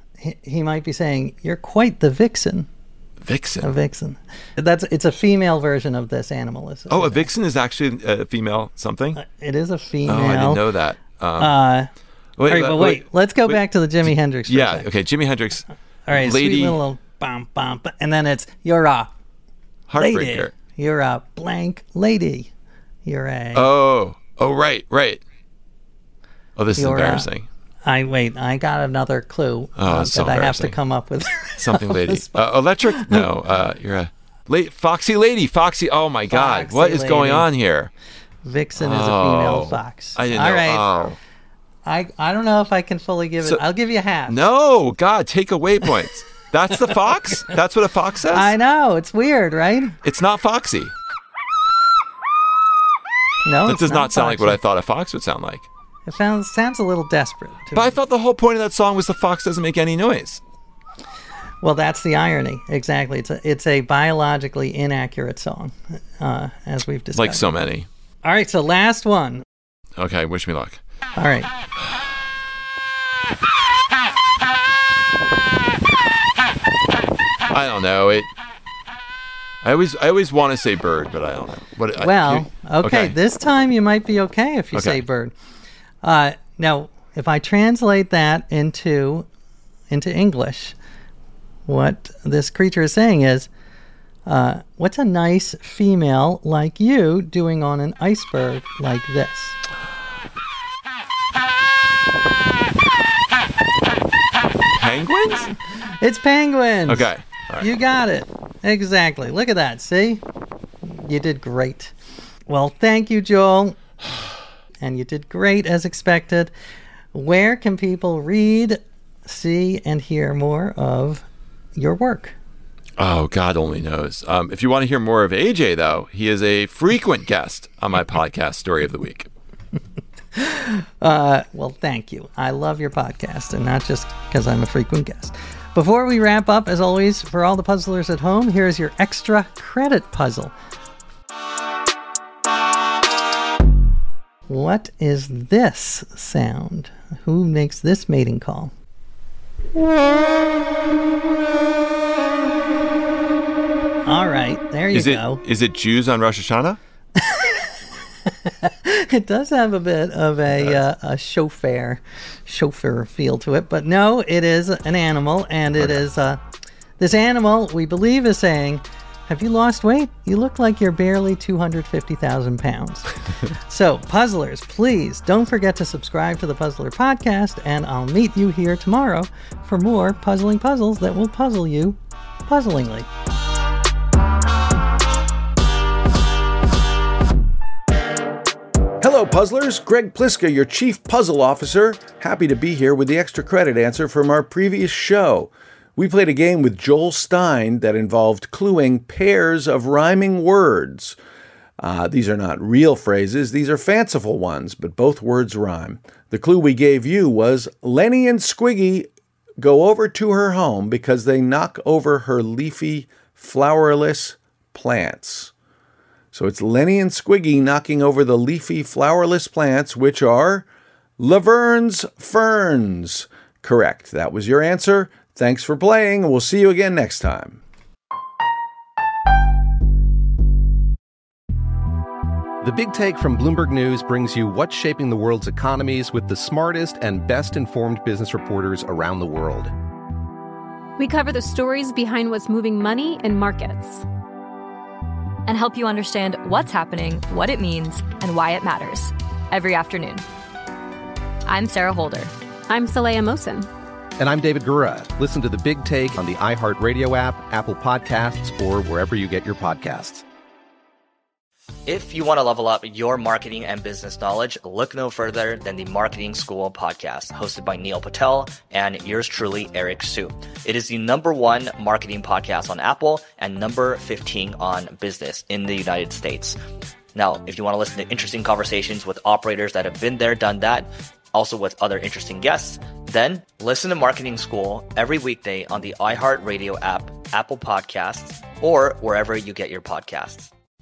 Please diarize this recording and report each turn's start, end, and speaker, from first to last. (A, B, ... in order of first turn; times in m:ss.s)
0:00.2-0:02.7 A
0:03.2-0:03.7 B
0:03.6-0:07.3 A
0:06.9-0:09.2 B
0:09.2-0:10.6 A
0:10.0-0:11.6 B
0:11.4-0:11.9 A
0:12.4-0:16.8 B
0:12.5-0:14.9 A
0:16.0-0:19.1 A
0:19.9-0:20.5 B
0:20.0-0:22.5 A
0:23.0-0:23.7 A
0:23.5-0:25.2 B
0:26.6-0:27.5 B
0:26.8-0:27.3 A
0:27.8-0:33.3 A
0:29.8-0:30.8 B
0:31.6-0:37.9 B
0:36.3-0:37.5 A
0:38.4-0:40.9 A
0:38.8-0:41.2 B
0:41.8-0:44.5 A
0:44.3-0:48.5 B
0:48.3-0:50.0 A
0:50.0-0:50.9 B
0:53.4-0:54.6 A
0:53.6-0:55.7 B
0:56.0-0:58.0 A
0:57.7-1:00.4 B
1:01.6-1:07.5 A
1:07.2-1:07.9 B
1:08.2-1:09.4 A
1:10.0-1:10.8 B
1:11.1-1:11.5 A
1:17.5-1:18.3 B
1:19.6-1:23.2 B
1:22.0-1:25.3 A
1:24.7-1:25.0 B
1:26.0-1:29.2 A
1:29.9-1:30.8 A
1:31.7-1:33.5 A
1:34.2-1:39.6 A
1:44.7-1:45.5 B
1:46.0-1:50.2 A
1:46.9-1:47.7 B
1:50.8-1:51.9 A
1:52.5-1:53.8 A
1:54.8-1:56.5 A
1:57.1-2:02.4 A
2:03.0-2:09.3 B
2:10.3-2:20.5 A
2:24.5-2:28.7 A
2:34.0-2:35.4 A
2:34.9-2:36.8 B
2:37.2-2:37.7 A
2:38.3-2:46.4 A
2:47.0-2:53.1 A
2:53.7-3:03.1 A
3:09.0-3:21.2 C
3:21.8-3:29.1 C
3:29.6-3:35.5 C
3:36.3-3:40.6 C
3:41.2-3:47.6 C
3:52.6-3:59.7 D
4:01.0-4:04.0 E
4:05.4-4:10.2 F
4:11.5-4:12.3 F
4:12.7-4:13.7 E
4:14.2-4:20.2 D
4:21.9-4:36.6 G
4:37.1-4:50.5 G